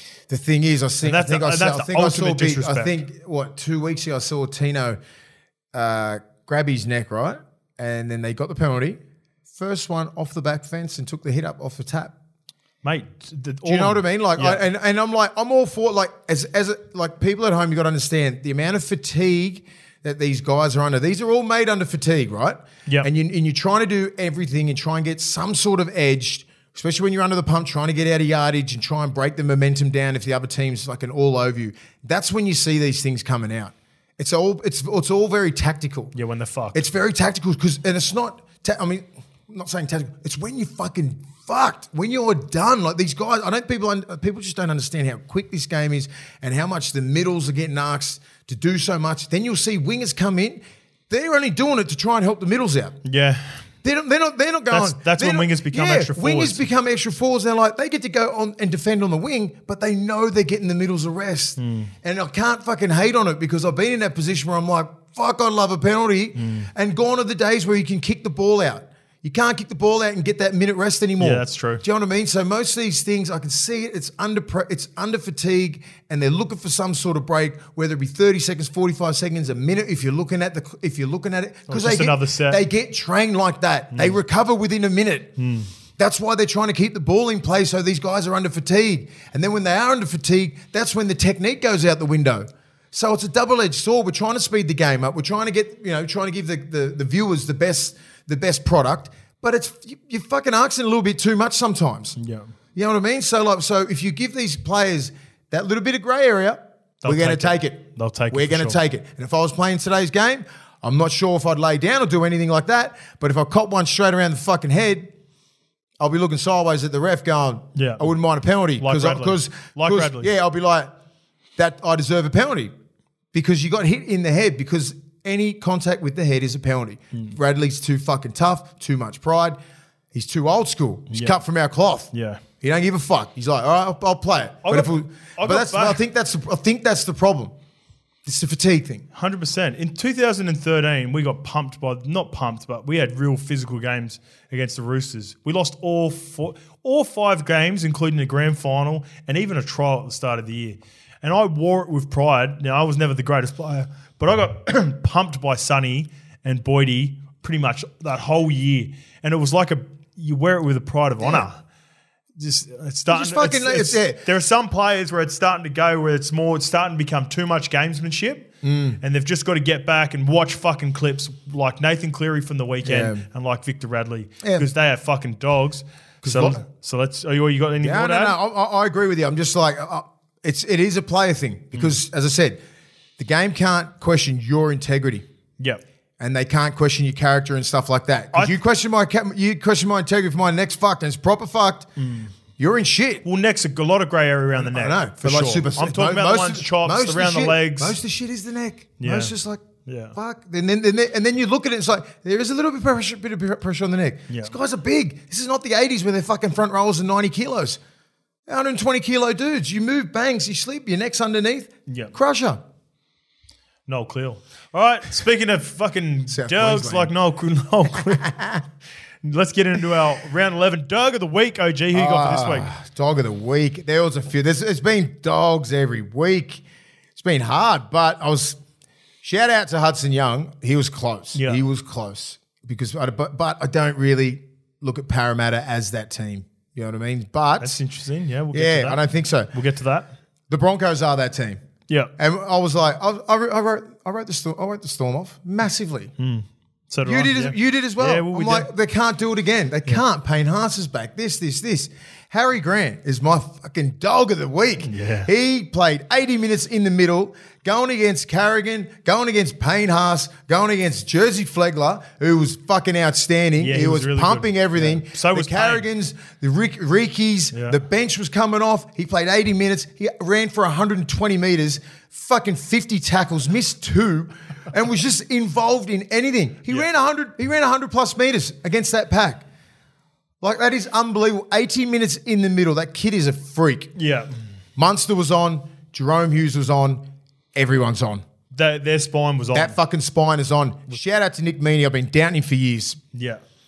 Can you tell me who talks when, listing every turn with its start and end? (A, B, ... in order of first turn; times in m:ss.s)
0:00.3-0:05.0 A
0:01.0-0:03.0 B
0:05.7-0:09.0 A
0:09.5-0:12.1 A
0:12.8-0:14.6 B
0:13.6-0:36.1 A
0:36.2-0:36.8 B
0:36.7-0:53.0 A
0:53.0-0:53.6 B
0:53.8-1:25.3 A
0:54.7-0:56.6 B
1:01.6-1:01.9 B
1:06.4-1:06.7 B
1:11.2-1:11.8 B
1:21.7-1:22.6 B
1:23.9-1:24.2 B
1:25.4-1:25.7 B
1:26.0-1:42.2 A
1:42.2-1:42.5 B
1:42.8-1:55.1 A
1:47.0-1:48.8 B
1:56.0-2:00.9 A
1:57.8-1:58.1 B
1:58.8-2:00.3 B
2:01.6-2:02.7 A
2:03.3-2:09.6 A
2:10.1-2:17.5 A
2:11.1-2:11.4 B
2:12.1-2:12.4 B
2:14.6-2:16.0 B
2:18.2-2:19.0 A
2:19.1-2:41.6 B
2:42.4-2:48.5 B
2:43.1-2:44.2 A
2:48.6-2:49.0 A
2:49.0-2:58.4 B
2:52.8-2:53.2 A
2:54.4-2:54.7 A
2:56.2-2:56.6 A
2:57.8-3:02.6 A
3:03.2-3:05.2 A
3:06.2-3:11.9 A
3:08.3-3:08.6 B
3:12.0-3:12.3 B
3:12.6-3:13.2 A
3:13.2-3:18.0 B
3:14.6-3:19.6 A
3:19.0-3:19.3 B
3:19.9-3:20.2 B
3:20.2-3:27.8 A
3:24.3-3:24.5 B
3:28.5-3:32.6 A
3:31.9-3:32.1 B
3:33.9-3:38.3 B
3:36.3-3:37.1 A
3:37.9-3:38.6 A
3:39.2-3:42.7 B
3:41.9-3:46.6 A
3:47.2-3:48.6 A
3:49.2-3:57.8 A
3:51.4-3:51.6 B
3:57.6-3:59.0 B
3:58.5-3:59.5 A
3:59.5-4:00.1 B
4:00.5-4:01.6 A
4:02.2-4:06.1 A
4:06.2-4:08.7 B
4:07.0-4:39.4 A
4:14.8-4:15.3 B
4:23.6-4:25.9 B
4:27.5-4:27.8 B
4:40.4-4:43.9 A
4:44.0-4:44.3 B
4:44.8-4:47.0 A
4:47.6-4:48.2 A
4:48.5-4:49.8 B
4:49.5-4:53.0 A
4:53.1-4:53.4 B